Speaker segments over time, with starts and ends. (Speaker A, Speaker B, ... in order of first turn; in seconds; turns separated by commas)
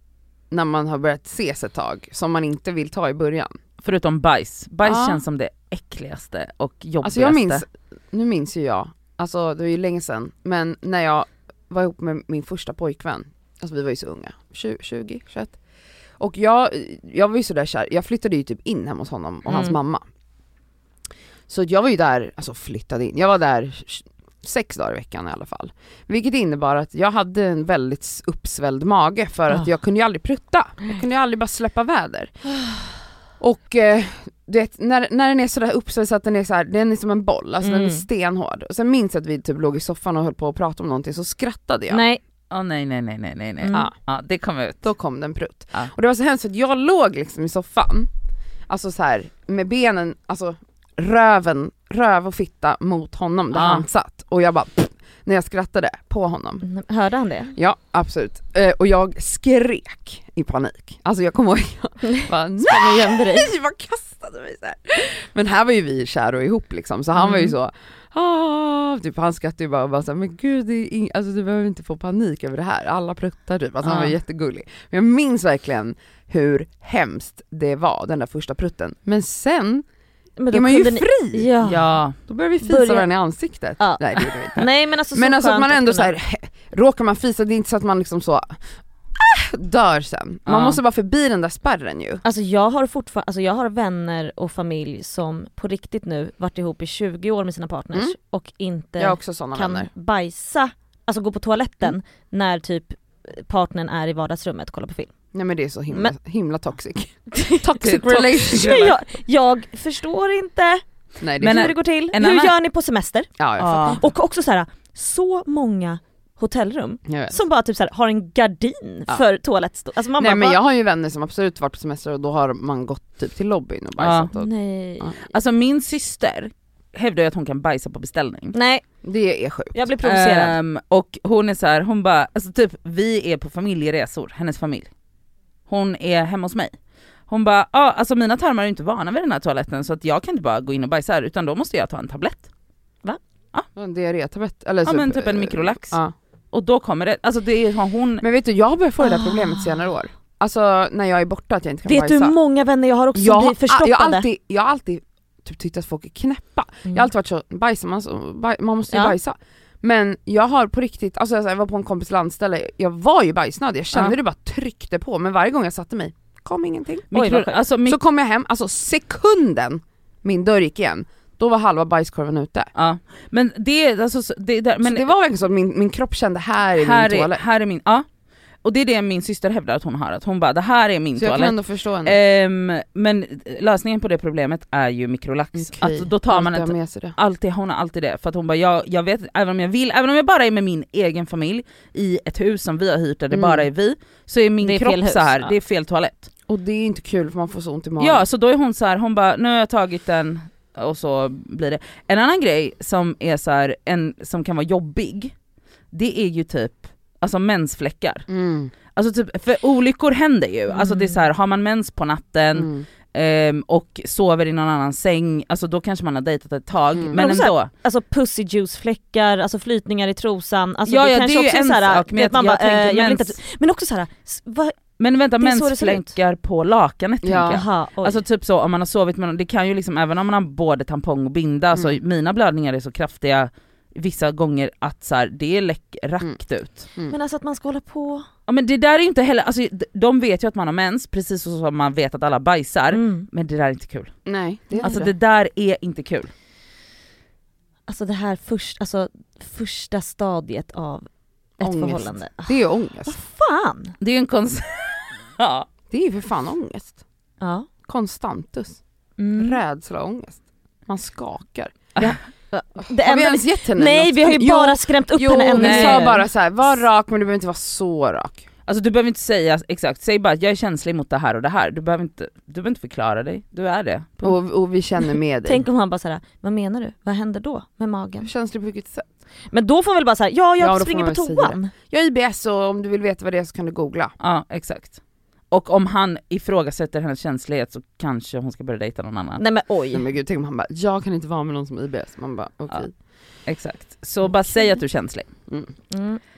Speaker A: 0.5-3.6, Speaker B: 3.8-7.6, Speaker A: 4.8-5.2, Speaker A: 7.0-15.6, Speaker A: 16.2-20.0, Speaker C: 19.5-19.8, Speaker A: 21.5-32.4, Speaker A: 33.4-42.0, Speaker C: 37.6-38.0, Speaker C: 41.9-42.2, Speaker B: 42.5-44.9, Speaker C: 43.6-43.9, Speaker A: 44.8-48.1, Speaker A: 48.7-56.6, Speaker B: 53.5-53.9, Speaker C: 56.6-57.5, Speaker A: 57.5-79.8, Speaker C: 62.6-63.5, Speaker C: 67.2-67.5, Speaker B: 73.8-74.1, Speaker C: 80.4-81.9, Speaker A: 80.5-81.5, Speaker B: 81.6-82.1, Speaker A: 82.3-88.6, Speaker C: 82.6-83.1, Speaker C: 83.8-86.1, Speaker A: 89.2-92.2, Speaker B: 90.5-90.8, Speaker C: 92.2-105.1, Speaker A: 99.0-99.9, Speaker A: 105.3-109.0, Speaker C: 105.9-106.1, Speaker C: 107.3-110.8, Speaker A: 111.2-111.8, Speaker C: 111.4-120.6, Speaker B: 111.4-112.6, Speaker A: 113.4-114.0, Speaker B: 113.6-114.0, Speaker A: 117.1-117.4, Speaker A: 120.2-125.2, Speaker B: 124.0-124.3, Speaker C: 124.3-125.2, Speaker B: 125.2-128.5, Speaker C: 128.5-128.8, Speaker A: 129.0-129.9, Speaker C: 129.7-130.6, Speaker B: 130.0-134.9, Speaker B: 135.7-136.7, Speaker B: 137.3-142.5, Speaker A: 143.8-146.1, Speaker B: 144.8-146.0, Speaker B: 146.5-148.2, Speaker A: 148.2-152.4, Speaker C: 149.0-149.8, Speaker C: 151.8-154.3, Speaker A: 153.1-167.1, Speaker C: 158.9-159.2, Speaker B: 167.1-168.0, Speaker C: 167.1-167.6, Speaker A: 167.8-172.7, Speaker B: 172.7-175.1, Speaker A: 174.8-177.4, Speaker B: 176.8-178.1, Speaker B: 178.6-196.3, Speaker A: 181.2-182.2, Speaker A: 185.5-187.2, Speaker A: 193.3-193.7, Speaker C: 194.6-195.5, Speaker A: 196.5-198.2, Speaker B: 198.0-205.3, Speaker B: 205.9-208.2, Speaker A: 208.3-208.7, Speaker B: 208.9-217.7, Speaker C: 210.7-211.2, Speaker A: 212.5-212.9, Speaker A: 216.9-217.2, Speaker C: 217.1-224.8, Speaker B: 220.9-223.3, Speaker B: 225.0-236.9, Speaker C: 225.4-226.1, Speaker A: 227.2-227.6, Speaker C: 227.4-228.2, Speaker C: 237.1-238.2, Speaker B: 238.5-244.1, Speaker C: 242.9-243.3, Speaker A: 244.2-245.1, Speaker C: 244.7-245.1, Speaker B: 244.8-246.3, Speaker C: 247.9-251.1, Speaker C: 251.6-253.9, Speaker A: 251.6-253.2, Speaker B: 254.0-255.7, Speaker A: 255.9-257.0, Speaker C: 257.4-257.7, Speaker A: 257.9-258.8, Speaker C: 259.2-259.6, Speaker A: 259.3-261.8, Speaker C: 262.0-266.8, Speaker A: 262.8-268.4, Speaker B: 265.6-266.1, Speaker B: 268.6-274.2, Speaker A: 274.2-275.6, Speaker C: 275.4-278.3, Speaker A: 278.2-279.0, Speaker C: 279.5-281.7, Speaker A: 280.6-284.1, Speaker B: 284.2-285.0, Speaker B: 285.5-289.4, Speaker C: 289.4-290.0, Speaker A: 289.9-292.9, Speaker B: 293.5-295.3, Speaker A: 295.5-295.7, Speaker C: 295.9-296.2